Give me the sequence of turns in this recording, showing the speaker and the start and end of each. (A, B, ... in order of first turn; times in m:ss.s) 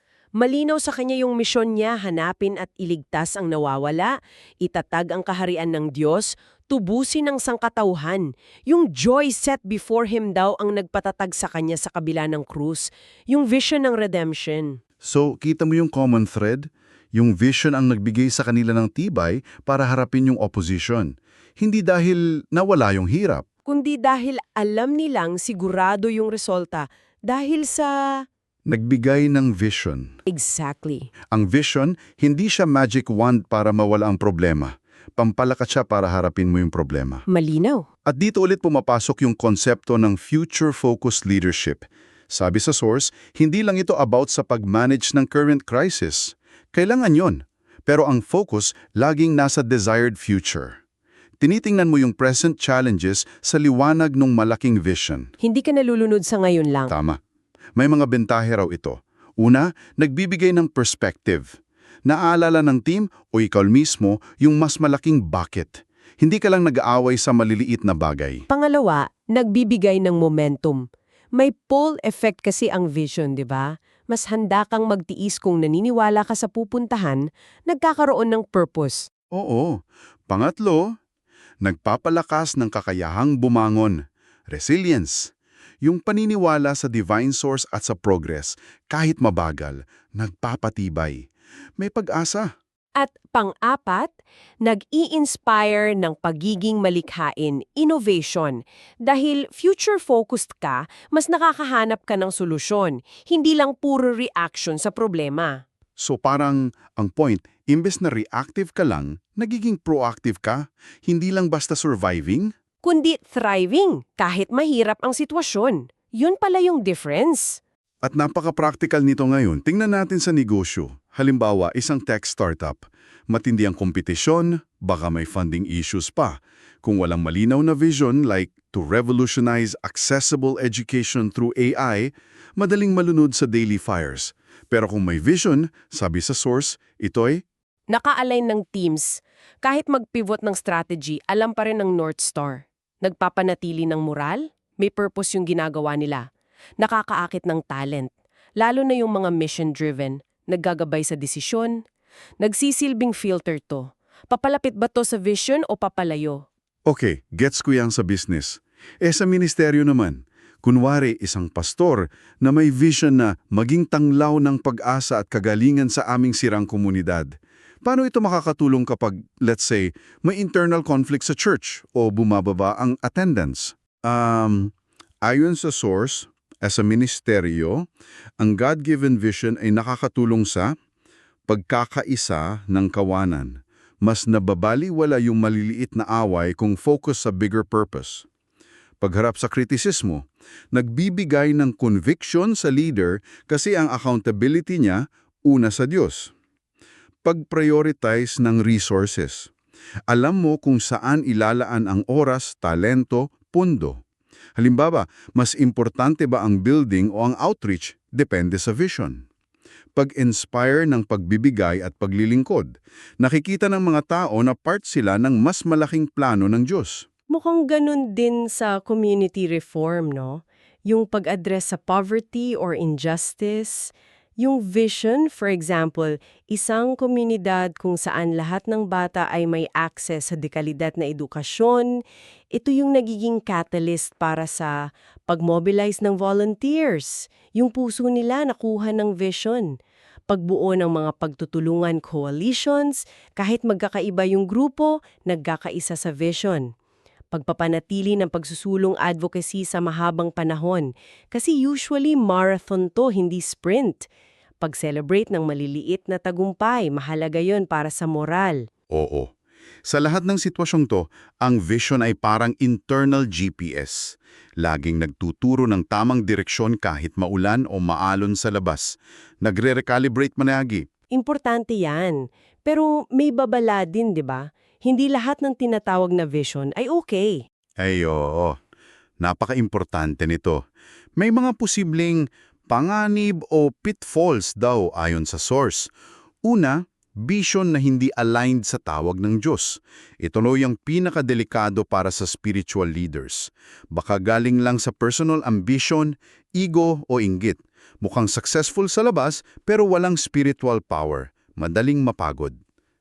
0:00.4-0:14.8 A
0:15.0-0:23.4 B
0:23.7-0:28.0 A
0:28.7-0:30.1 B
0:30.3-0:31.1 A
0:31.3-0:37.2 B
0:37.3-0:37.8 A
0:38.0-0:50.8 B
0:51.4-0:55.3 B
0:55.4-0:56.9 A
0:56.9-0:57.2 B
0:57.8-1:01.4 B
1:02.0-1:08.4 B
1:08.5-1:10.8 A
1:11.3-1:19.0 A
1:19.3-1:19.8 B
1:20.3-1:20.8 B
1:21.6-1:24.0 B
1:24.5-1:25.3 B
1:25.8-1:31.3 B
1:31.8-1:32.5 B
1:33.0-1:45.6 A
1:46.0-1:52.5 B
1:52.8-1:57.6 A
1:58.0-2:17.4 B
2:17.9-2:26.2 A
2:26.8-2:31.8 A
2:32.4-2:36.4 A
2:36.9-2:47.3 B
2:47.8-2:54.7 B
2:55.2-2:57.9 B
2:58.4-3:00.7 B
3:01.5-3:08.2 B
3:09.0-3:16.3 B
3:17.2-3:19.5 B
3:20.1-3:24.0 B
3:24.6-3:29.2 B
3:29.9-3:37.0 B
3:37.3-3:51.9 A
3:52.6-3:54.7 A
3:55.3-3:59.7 A
4:00.3-4:06.7 A
4:07.3-4:14.1 A
4:14.6-4:18.6 A
4:18.9-4:19.3 B
4:19.9-4:30.8 B
4:31.1-4:37.4 A
4:37.8-4:38.6 B
4:39.2-4:40.6 B
4:41.2-4:45.9 B
4:46.4-5:02.6 B